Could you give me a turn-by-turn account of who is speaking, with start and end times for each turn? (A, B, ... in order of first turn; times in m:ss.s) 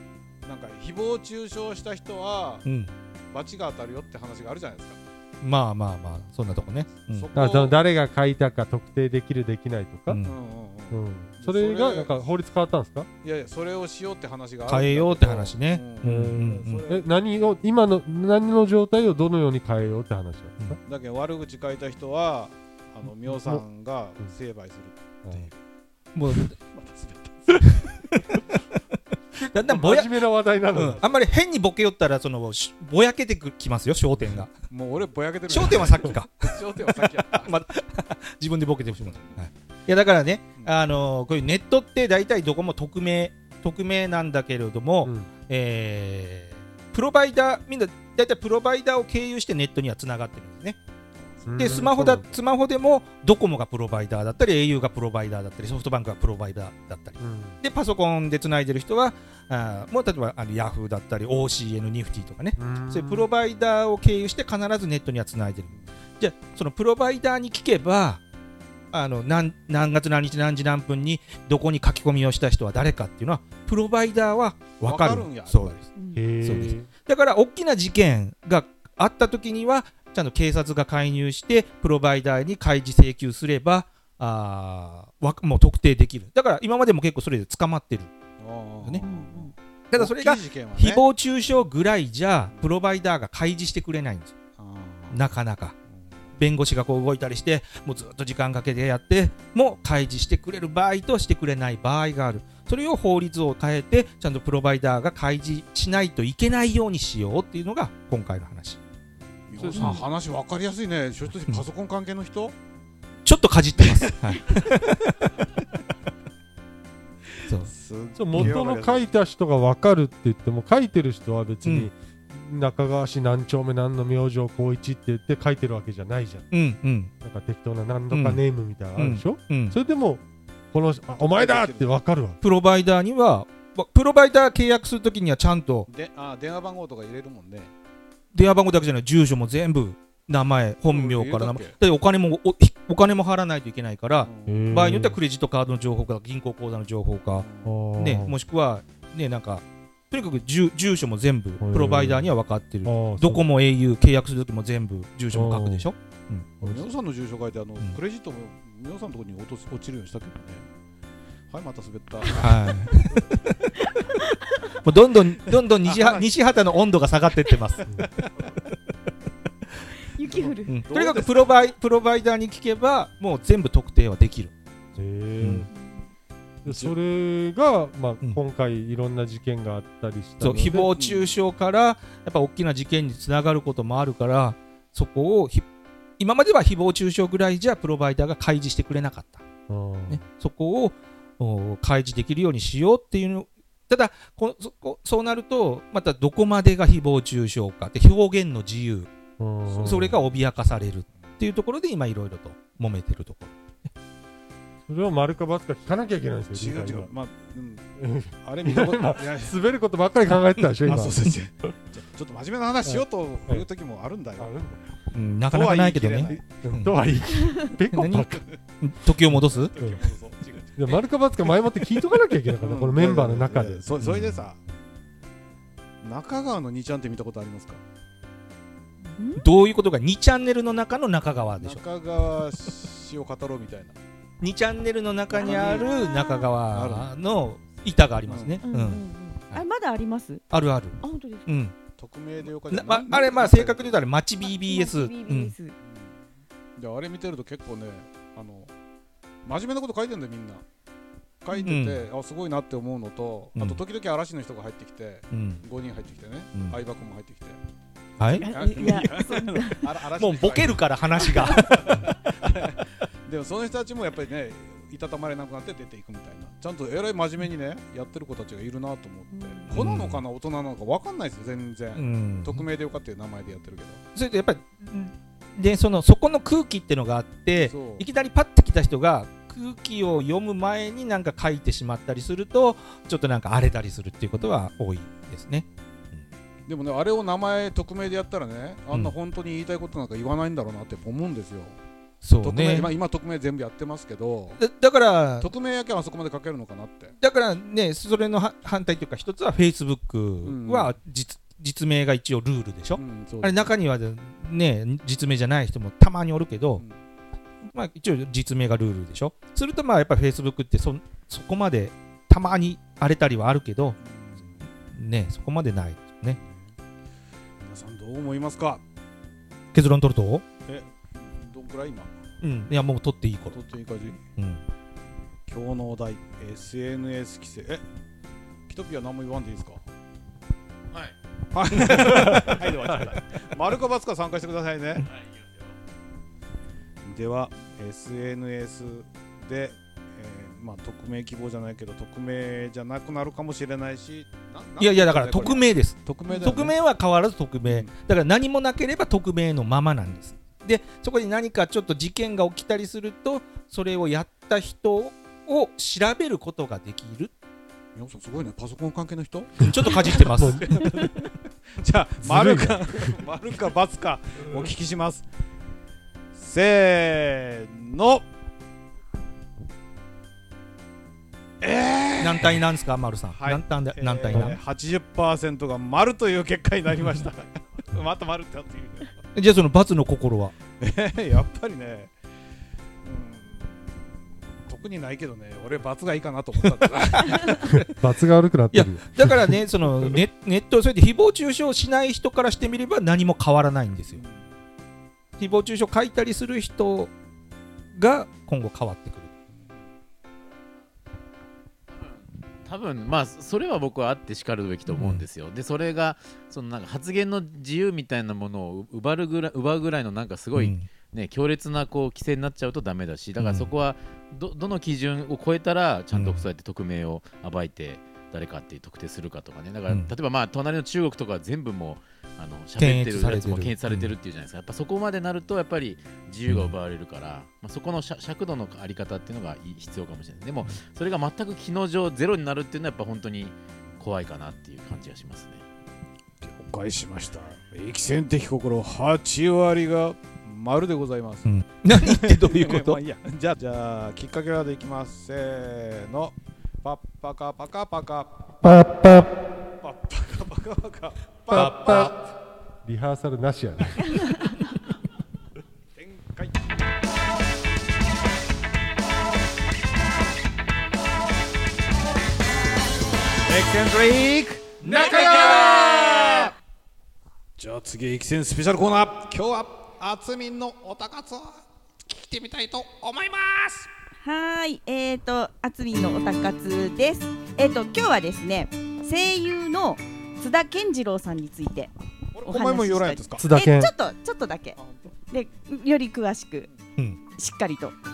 0:00.4-0:02.6 A
0:02.6-0:02.9 B
0:03.3-0:05.0 A
0:05.4-0:07.3 B
0:06.6-0:07.8 A
0:07.3-0:10.2 C
0:10.1-0:10.3 B
0:10.2-0:12.2 A
0:10.9-0:13.1 C
0:13.2-0:17.1 A
0:14.7-0:16.9 B
0:16.0-0:20.8 C
0:20.8-0:25.5 A
0:23.3-0:23.6 C
0:25.2-0:25.5 C
0:26.1-0:26.6 B
0:26.7-0:27.9 A
0:29.3-0:31.0 C
0:29.5-0:30.2 B
0:30.7-0:34.5 B
0:34.7-0:37.5 A
0:35.5-0:36.5 B
0:37.4-0:50.8 B
0:39.0-0:39.3 A
0:45.0-0:45.3 C
0:51.2-0:51.9 A
0:51.4-0:52.3 C
0:51.6-1:08.2 B
0:57.2-0:57.6 C
1:02.6-1:03.3 C
1:08.9-1:15.8 B
1:14.8-1:15.8 A
1:16.0-1:16.2 D
1:16.1-1:16.9 C
1:16.4-1:28.1 B
1:28.4-1:31.0 A
1:29.0-1:29.5 D
1:29.9-1:34.3 B
1:34.6-1:35.2 A
1:35.1-1:35.7 B
1:35.9-1:36.2 A
1:36.4-1:48.8 B
1:49.5-1:52.5 A
1:49.5-1:50.0 C
1:49.7-1:50.0 B
1:53.2-1:55.6 B
1:57.5-1:59.1 A
1:58.2-2:06.5 C
2:01.6-2:01.9 B
2:06.5-2:07.1 B
2:07.2-2:12.4 C
2:08.1-2:08.4 B
2:09.0-2:09.8 B
2:11.2-2:12.0 A
2:12.4-2:15.9 B
2:15.9-2:17.7 A
2:18.3-2:36.5 B
2:20.9-2:21.7 A
2:24.2-2:24.7 A
2:24.4-2:25.2 C
2:27.3-2:27.7 A
2:27.6-2:28.4 C
2:31.6-2:32.3 C
2:32.8-2:33.4 C
2:35.3-2:35.9 C
2:36.6-2:40.7 A
2:41.5-2:43.2 A
2:42.3-2:43.5 B
2:44.8-2:47.9 B
2:45.8-2:46.3 A
2:48.0-2:48.5 A
2:50.1-2:50.8 D
2:50.2-2:51.5 A
2:50.7-2:54.5 B
2:55.0-2:55.7 C
2:55.4-2:55.7 B
2:55.7-2:56.0 D
2:56.6-3:00.9 C
2:56.6-2:56.9 A
3:00.4-3:05.6 B
3:00.8-3:01.3 A
3:06.2-3:09.4 B
3:09.7-3:10.2 C
3:10.1-3:19.1 B
3:19.4-3:20.2 C
3:19.7-3:23.5 B
3:19.8-3:20.2 A
3:24.9-3:27.1 C
3:26.5-3:29.6 A
3:28.0-3:31.2 C
3:30.8-3:34.6 A
3:32.8-3:33.7 C
3:34.4-3:34.8 C
3:35.1-3:36.9 B
3:35.5-3:36.4 A
3:36.3-3:38.4 C
3:37.9-3:39.7 B
3:39.3-3:41.1 A
3:39.8-3:40.0 C
3:40.8-3:43.9 C
3:42.6-3:44.6 A
3:44.0-3:44.4 B
3:46.0-3:47.8 A
3:49.2-3:49.4 D
3:49.4-3:51.8 B
3:51.6-3:54.0 A
3:54.4-3:59.6 B
3:55.3-3:55.9 A
3:55.4-3:56.5 D
3:56.7-3:57.1 A
3:58.2-3:58.6 A
3:58.6-4:00.4 D
4:00.5-4:01.7 B
4:01.0-4:01.5 D
4:02.0-4:04.0 A
4:02.7-4:05.5 B
4:04.4-4:05.8 D
4:05.8-4:06.2 A
4:06.8-4:08.7 A
4:09.4-4:10.6 A
4:11.4-4:17.6 A
4:11.6-4:12.1 B
4:13.6-4:13.8 B
4:15.3-4:15.6 B
4:18.2-4:18.5 B
4:18.3-4:34.0 A
4:18.3-4:19.9 D
4:20.2-4:22.2 B
4:29.3-4:29.7 D
4:29.7-4:30.2 B
4:31.9-4:32.6 B
4:34.1-4:46.2 B
4:37.6-4:38.0 A
4:46.7-4:51.8 A
4:52.2-4:52.9 B
4:52.4-4:54.6 A
4:54.6-4:55.5 B
4:55.4-4:57.1 A
4:57.2-5:06.8 B
5:00.4-5:00.9 A
5:03.0-5:03.6 A
5:07.7-5:14.0 B
5:14.0-5:14.6 A
5:14.9-5:16.4 B
5:16.4-5:16.7 A
5:17.6-5:18.8 A
5:19.7-5:20.4 B
5:20.6-5:22.1 A
5:22.4-5:23.6 B
5:23.5-5:24.2 A
5:25.5-5:27.8 A
5:28.7-5:29.8 A
5:31.5-5:35.0 A
5:31.9-5:32.4 B
5:37.0-5:46.7 A
5:44.8-5:57.3 B
5:58.0-6:01.2 A
5:59.6-6:01.1 B
6:00.3-6:00.9 C
6:01.8-6:05.2 A
6:02.2-6:03.2 C
6:06.3-6:08.2 A
6:11.6-6:12.6 A
6:12.2-6:14.6 B
6:13.3-6:19.2 A
6:19.3-6:20.5 B
6:20.8-6:22.1 A
6:23.0-6:24.0 A
6:24.6-6:27.8 A
6:27.6-6:29.6 C
6:28.7-6:34.2 B
6:34.1-6:34.5 A
6:35.4-6:37.1 B
6:37.9-6:39.3 B
6:42.6-7:15.6 E
6:44.9-6:45.2 B
6:50.6-6:50.9 B
6:53.4-6:53.7 B
6:56.1-6:56.4 B
7:02.8-7:04.1 B
7:06.5-7:06.7 B
7:16.4-7:28.5 A
7:21.4-7:23.0 B
7:28.6-7:29.3 C
7:29.8-7:32.2 A
7:31.5-7:34.2 C
7:31.5-7:32.0 B
7:36.0-7:36.5 A
7:43.5-7:46.5 A
7:47.6-7:53.9 A
7:54.2-8:01.9 D
8:02.3-8:03.5 A
8:02.4-8:06.7 D
8:03.4-8:03.9 C
8:04.8-8:05.1 A
8:07.4-8:08.0 D